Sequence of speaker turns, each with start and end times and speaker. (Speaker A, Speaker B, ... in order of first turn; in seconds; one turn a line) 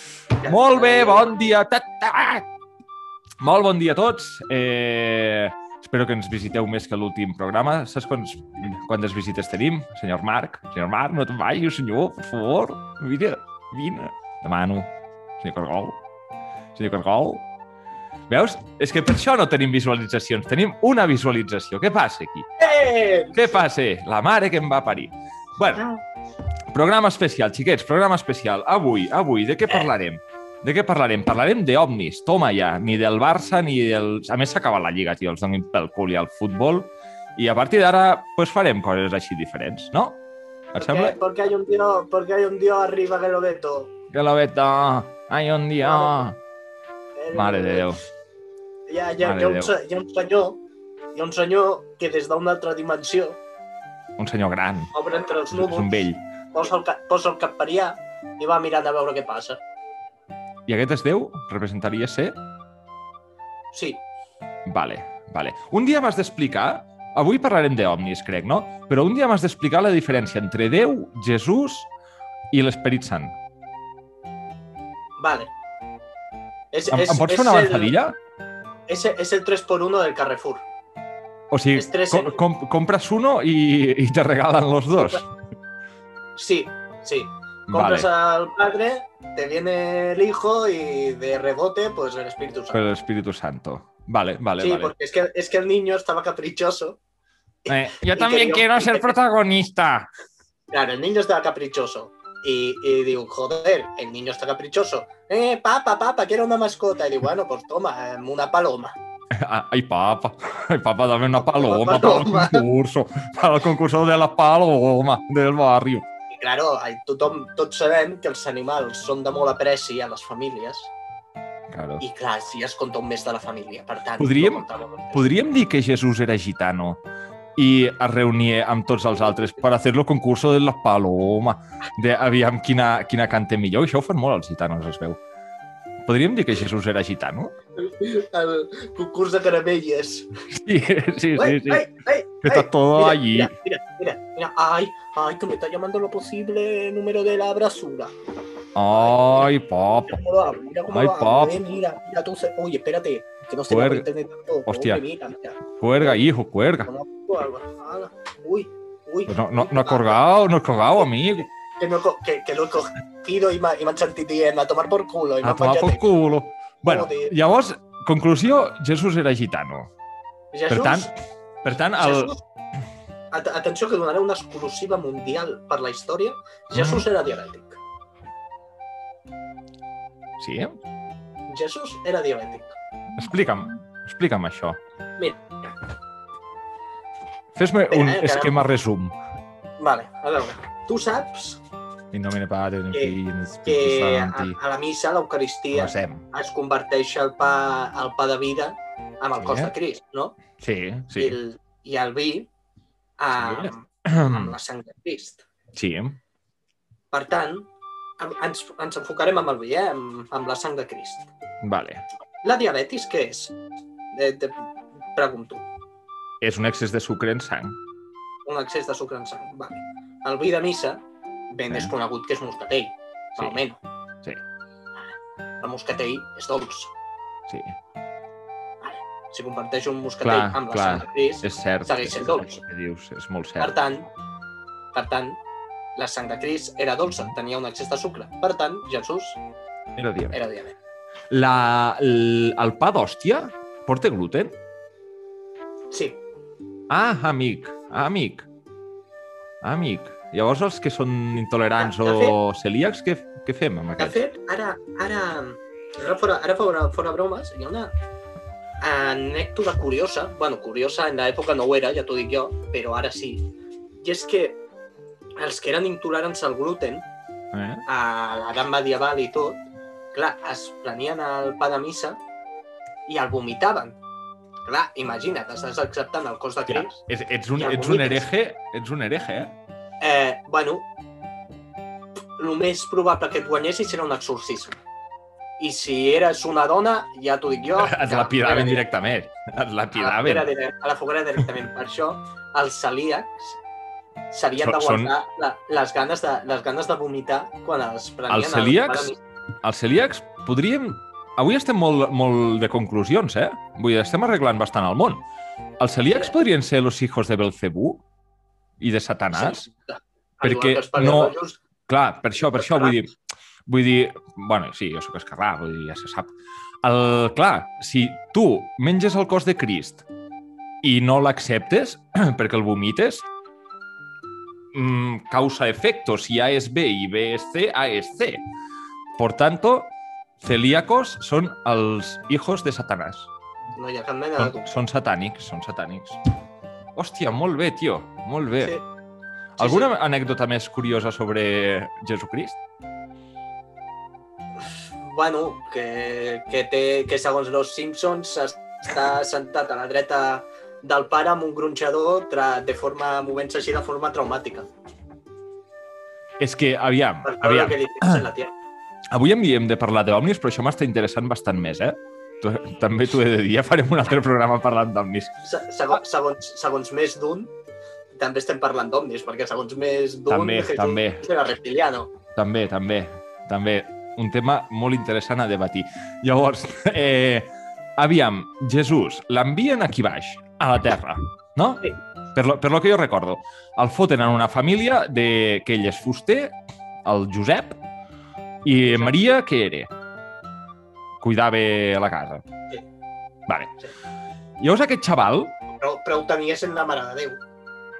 Speaker A: 0.4-1.3
Speaker B: 0.4-2.4
Speaker B: 3.4-16.0
Speaker B: 16.8-17.4
Speaker B: 18.3-22.5
Speaker A: 22.6-23.4
Speaker B: 23.3-25.9
Speaker B: 26.7-40.2
Speaker B: 40.7-41.2
Speaker A: 40.8-43.9
Speaker B: 44.1-46.4
Speaker A: 45.8-46.3
Speaker A: 47.1-47.9
Speaker B: 47.3-48.0
Speaker A: 48.9-50.6
Speaker B: 49.2-49.7
Speaker A: 51.1-53.4
Speaker B: 54.2-54.9
Speaker A: 54.9-59.6
Speaker B: 55.5-56.2
Speaker B: 60.7-62.4
Speaker A: 63.7-64.0
Speaker B: 64.7-71.9
Speaker B: 72.5-73.3
Speaker A: 75.2-75.5
Speaker A: 76.7-77.9
Speaker B: 76.9-78.2
Speaker A: 78.9-80.6
Speaker B: 81.5-85.2
Speaker A: 81.7-82.4
Speaker A: 84.9-85.2
Speaker A: 86.3-92.8
Speaker B: 87.7-88.1
Speaker B: 92.7-94.9
Speaker A: 94.6-97.0
Speaker A: 97.7-99.2
Speaker B: 97.7-100.1
Speaker A: 100.7-109.0
Speaker B: 109.4-116.0
Speaker A: 111.3-112.6
Speaker A: 116.3-120.9
Speaker B: 121.7-122.0
Speaker A: 122.0-125.3
Speaker B: 124.2-127.0
Speaker B: 127.6-135.2
Speaker B: 136.1-137.5
Speaker A: 137.8-140.3
Speaker B: 140.5-141.9
Speaker A: 141.3-148.1
Speaker B: 142.4-143.5
Speaker B: 148.8-150.2
Speaker A: 148.9-149.5
Speaker A: 150.1-156.2
Speaker B: 150.9-151.6
Speaker B: 153.7-154.0
Speaker B: 154.7-155.0
Speaker B: 155.8-156.9
Speaker A: 156.8-160.2
Speaker B: 159.3-161.5
Speaker A: 161.8-166.1
Speaker B: 165.4-169.9
Speaker A: 166.8-167.3
Speaker A: 170.5-171.1
Speaker B: 170.7-171.1
Speaker B: 171.6-172.3
Speaker A: 171.9-172.4
Speaker A: 173.3-177.8
Speaker B: 176.7-177.1
Speaker B: 180.4-180.8
Speaker A: 181.5-182.8
Speaker B: 183.2-184.8
Speaker B: 187.5-189.1
Speaker A: 187.9-188.6
Speaker A: 189.8-191.6
Speaker B: 192.1-194.6
Speaker A: 192.9-200.4
Speaker B: 195.7-196.2
Speaker B: 199.4-199.7
Speaker B: 200.6-201.4
Speaker A: 201.2-202.5
Speaker A: 203.2-205.4
Speaker B: 203.4-204.5
Speaker B: 205.7-206.2
Speaker A: 207.1-207.7
Speaker A: 208.2-211.3
Speaker B: 211.6-212.0
Speaker A: 212.4-213.5
Speaker A: 214.1-214.6
Speaker A: 215.1-215.6
Speaker B: 216.4-217.8
Speaker A: 218.4-221.0
Speaker A: 221.5-223.8
Speaker A: 225.6-226.9
Speaker B: 227.5-227.7
Speaker A: 228.8-232.5
Speaker B: 230.2-233.8
Speaker A: 233.6-234.1
Speaker A: 234.9-235.4
Speaker A: 235.9-239.4
Speaker B: 240.0-240.4
Speaker A: 240.3-240.7
Speaker B: 241.3-244.6
Speaker A: 245.9-246.2
Speaker B: 246.9-248.5
Speaker B: 249.6-254.2
Speaker A: 251.8-252.4
Speaker A: 254.0-257.9
Speaker A: 258.8-263.4
Speaker A: 264.0-264.6
Speaker A: 265.4-267.1
Speaker B: 267.5-267.8
Speaker A: 267.9-269.6
Speaker A: 270.1-272.2
Speaker A: 273.1-274.0
Speaker A: 274.6-277.0
Speaker B: 276.7-279.5
Speaker A: 277.6-278.2
Speaker A: 280.0-280.8
Speaker A: 282.4-284.7
Speaker A: 285.6-288.8
Speaker B: 287.7-290.5
Speaker A: 289.9-293.6
Speaker A: 294.3-299.2
Speaker B: 294.6-295.1
Speaker B: 298.3-299.1
Speaker B: 299.6-305.2
Speaker B: 305.8-308.0
Speaker B: 308.8-309.6
Speaker A: 309.3-311.6
Speaker B: 310.4-311.3
Speaker B: 311.9-313.1
Speaker A: 312.5-312.9
Speaker B: 313.7-316.3
Speaker B: 316.8-320.0
Speaker B: 320.8-323.2
Speaker B: 324.7-328.4
Speaker B: 329.2-333.3
Speaker A: 333.7-334.8
Speaker B: 334.4-336.2
Speaker B: 336.9-338.8
Speaker B: 339.6-342.6
Speaker A: 339.6-339.9
Speaker A: 344.9-354.7
Speaker B: 356.4-358.2
Speaker A: 357.2-358.5
Speaker B: 359.1-365.3
Speaker A: 365.4-367.5
Speaker A: 368.1-372.1
Speaker B: 370.3-371.2
Speaker B: 372.4-386.5
Speaker B: 387.1-387.8
Speaker B: 388.6-389.9
Speaker A: 388.8-389.3
Speaker B: 391.2-392.4
Speaker B: 393.5-393.7
Speaker B: 394.6-395.5
Speaker A: 395.8-397.4